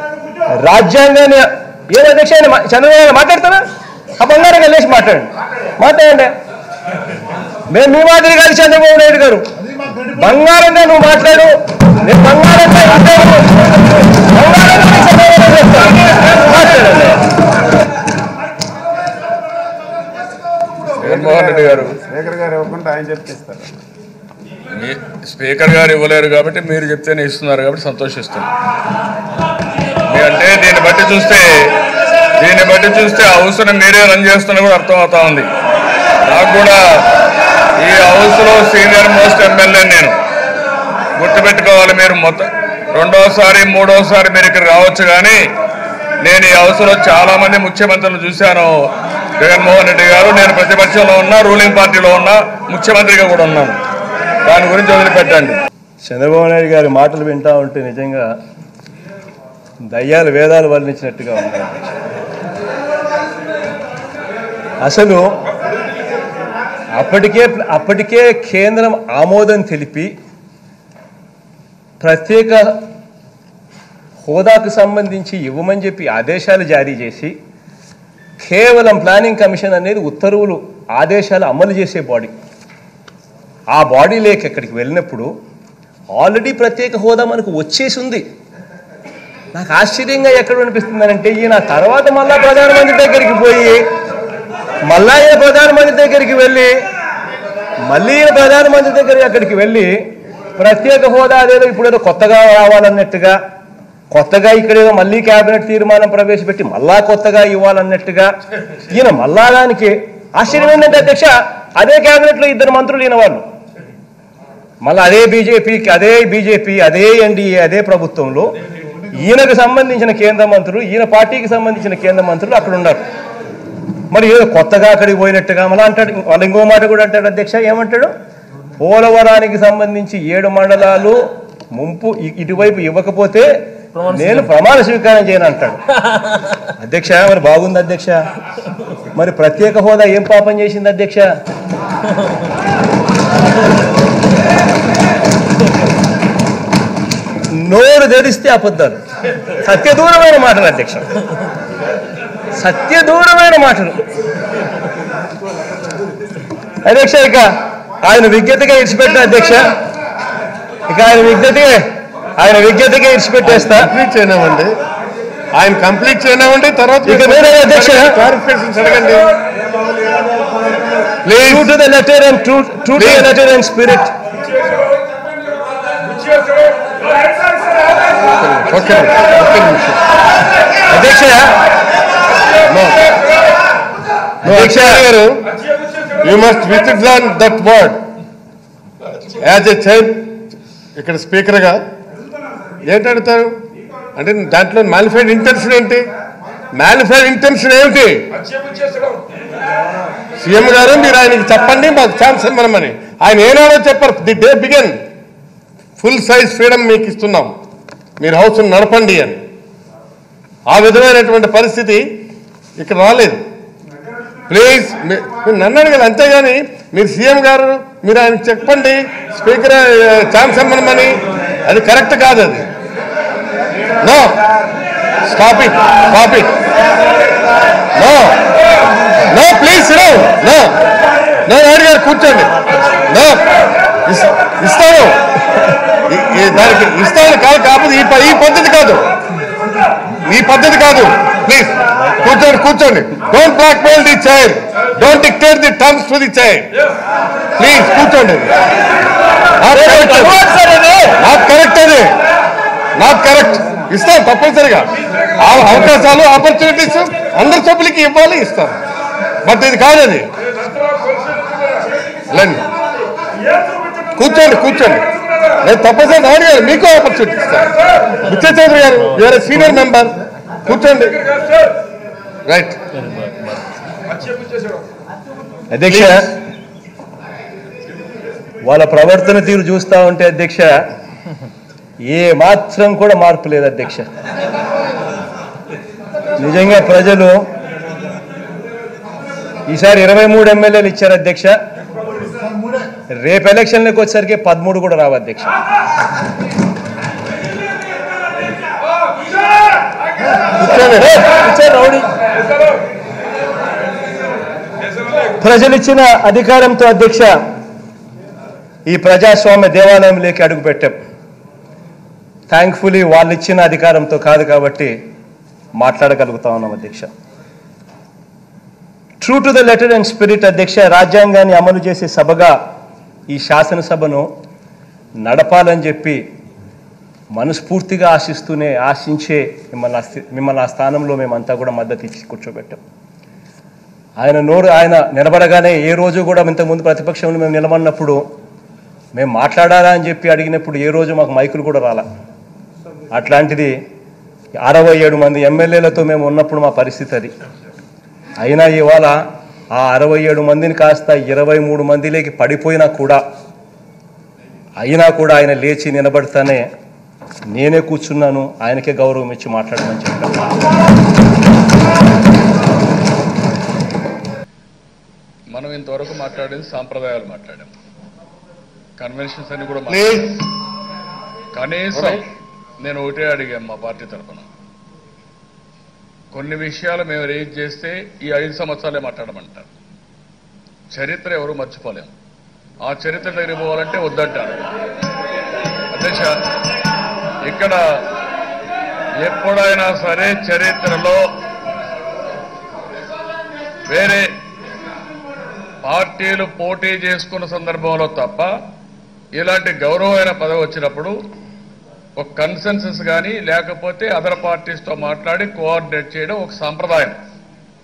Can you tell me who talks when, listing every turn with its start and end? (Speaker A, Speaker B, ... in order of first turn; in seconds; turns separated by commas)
Speaker A: 0.6-3.6, Speaker A: 4.2-6.3, Speaker A: 7.7-9.4, Speaker A: 10.2-17.2, Speaker B: 21.0-22.0, Speaker C: 21.1-23.8, Speaker B: 24.7-28.5, Speaker B: 30.1-31.7, Speaker B: 32.4-35.5, Speaker B: 36.2-36.8, Speaker B: 37.8-40.1, Speaker B: 41.2-45.4, Speaker B: 46.2-48.7, Speaker B: 49.4-53.8, Speaker B: 54.4-55.6, Speaker A: 56.0-58.3, Speaker A: 59.9-62.0, Speaker A: 64.8-65.2, Speaker A: 67.0-70.1, Speaker A: 72.0-72.8, Speaker A: 74.2-77.3, Speaker A: 78.4-82.3, Speaker A: 83.7-85.3, Speaker A: 86.1-88.2, Speaker A: 89.5-93.8, Speaker A: 94.9-96.7, Speaker A: 97.8-103.4, Speaker A: 104.1-108.3, Speaker A: 108.9-113.5, Speaker A: 114.8-118.5, Speaker A: 119.1-123.0, Speaker A: 124.1-128.1, Speaker A: 128.8-135.8, Speaker A: 136.8-138.2, Speaker A: 139.1-141.3, Speaker A: 147.5-149.0, Speaker A: 149.6-151.1, Speaker A: 152.5-154.0, Speaker A: 156.8-157.5, Speaker A: 158.0-159.7, Speaker A: 160.9-161.9, Speaker A: 162.4-163.9, Speaker C: 163.4-164.7, Speaker C: 165.5-169.3, Speaker A: 167.1-168.2, Speaker C: 171.2-171.7, Speaker A: 171.4-174.1, Speaker C: 173.0-173.3, Speaker C: 178.3-180.0, Speaker A: 180.9-181.6, Speaker C: 182.7-183.2, Speaker A: 184.4-185.0, Speaker C: 184.4-185.5, Speaker C: 186.2-188.1, Speaker C: 189.3-191.8, Speaker C: 192.8-193.6, Speaker C: 194.2-196.1, Speaker C: 196.8-198.2, Speaker C: 200.4-205.0, Speaker C: 206.0-207.5, Speaker C: 208.2-209.4, Speaker C: 210.7-212.2, Speaker C: 212.8-213.4, Speaker C: 214.5-222.7, Speaker C: 224.0-224.4, Speaker C: 225.2-226.5, Speaker C: 227.9-228.4, Speaker C: 229.3-230.8, Speaker C: 231.5-232.5, Speaker C: 233.1-233.5, Speaker C: 234.1-235.2, Speaker C: 236.1-239.1, Speaker C: 240.2-246.7, Speaker C: 247.6-248.5, Speaker C: 249.6-250.4, Speaker A: 249.8-251.1, Speaker C: 251.2-252.2, Speaker C: 252.9-258.8, Speaker C: 259.4-260.3, Speaker C: 262.3-262.6, Speaker C: 264.2-265.1, Speaker C: 265.6-271.2, Speaker C: 272.4-272.8, Speaker A: 275.7-276.3, Speaker C: 275.9-276.1, Speaker A: 278.6-280.8, Speaker A: 282.1-284.1, Speaker A: 286.4-287.4, Speaker A: 289.7-291.5, Speaker A: 293.2-295.6, Speaker C: 300.6-301.2, Speaker A: 300.8-302.1, Speaker A: 305.4-307.4, Speaker A: 308.9-311.0, Speaker A: 312.5-314.9, Speaker A: 315.8-317.1, Speaker A: 319.2-322.6, Speaker A: 323.3-324.3, Speaker A: 325.2-326.2, Speaker A: 327.4-332.8, Speaker A: 334.2-338.2, Speaker A: 339.1-342.1, Speaker A: 343.1-343.8, Speaker A: 344.6-347.3, Speaker A: 348.4-349.2, Speaker A: 349.7-353.2, Speaker A: 354.8-356.7, Speaker A: 357.5-360.4, Speaker B: 365.5-367.7, Speaker B: 369.0-370.4, Speaker C: 369.9-370.4, Speaker B: 371.5-372.3, Speaker C: 371.9-372.2, Speaker B: 372.8-374.4, Speaker B: 376.3-379.7, Speaker B: 380.9-382.1, Speaker B: 382.8-384.7, Speaker B: 385.9-386.4, Speaker B: 387.4-388.0, Speaker B: 389.2-391.2, Speaker B: 393.9-394.3, Speaker B: 395.8-398.5, Speaker B: 399.3-401.1, Speaker B: 402.2-407.1